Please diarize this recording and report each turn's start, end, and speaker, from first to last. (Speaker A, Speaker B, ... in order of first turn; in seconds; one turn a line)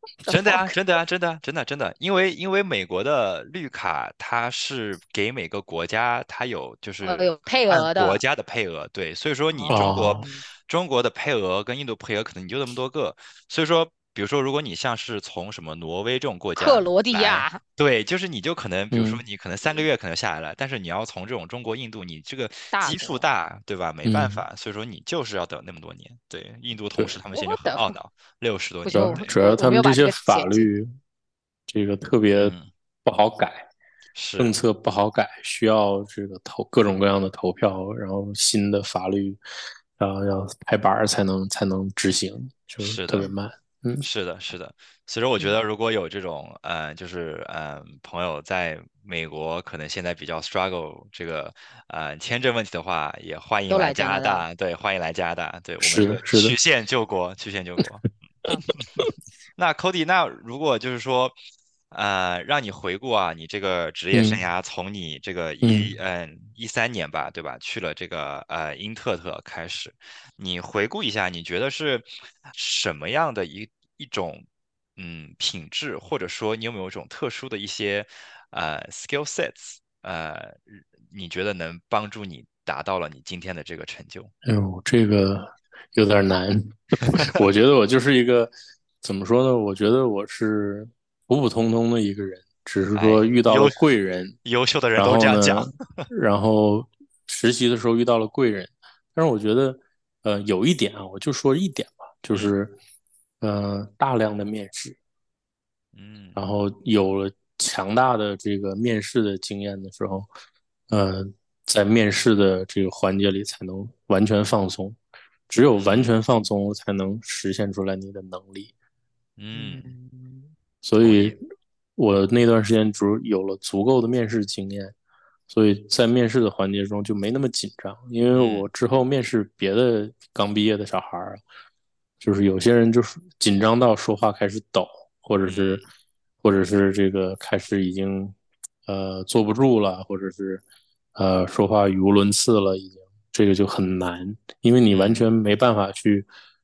Speaker A: 0.2-0.8
Speaker B: 0.3-29.3
Speaker A: 7.0-8.2
Speaker A: 9.5-10.4
Speaker C: 9.7-10.2
Speaker A: 16.6-17.6
Speaker C: 18.9-19.2
Speaker A: 22.7-23.2
Speaker C: 24.0-24.4
Speaker A: 27.3-27.9
Speaker A: 28.8-30.7
Speaker C: 28.9-30.9
Speaker C: 31.7-33.7
Speaker B: 32.4-32.7
Speaker B: 34.1-34.5
Speaker C: 34.4-39.4
Speaker C: 40.0-44.0
Speaker B: 42.8-43.3
Speaker B: 44.0-58.1
Speaker A: 53.7-54.5
Speaker C: 55.8-56.5
Speaker B: 59.6-61.4
Speaker B: 61.9-74.5
Speaker C: 64.1-64.4
Speaker C: 65.6-65.9
Speaker B: 75.0-84.3
Speaker C: 84.5-94.4
Speaker B: 93.0-93.8
Speaker B: 94.4-96.1
Speaker C: 95.0-102.8
Speaker C: 103.4-105.0
Speaker B: 105.9-106.4
Speaker C: 106.4-110.3
Speaker C: 110.9-115.0
Speaker C: 115.5-118.7
Speaker B: 115.8-116.1
Speaker B: 119.4-120.0
Speaker A: 119.5-120.5
Speaker C: 120.8-121.4
Speaker B: 121.0-121.4
Speaker C: 122.0-124.9
Speaker C: 125.5-131.4
Speaker B: 128.3-128.7
Speaker C: 132.2-135.8
Speaker B: 135.5-135.9
Speaker C: 136.4-138.4
Speaker C: 138.9-140.6
Speaker C: 141.2-146.3
Speaker B: 144.9-145.3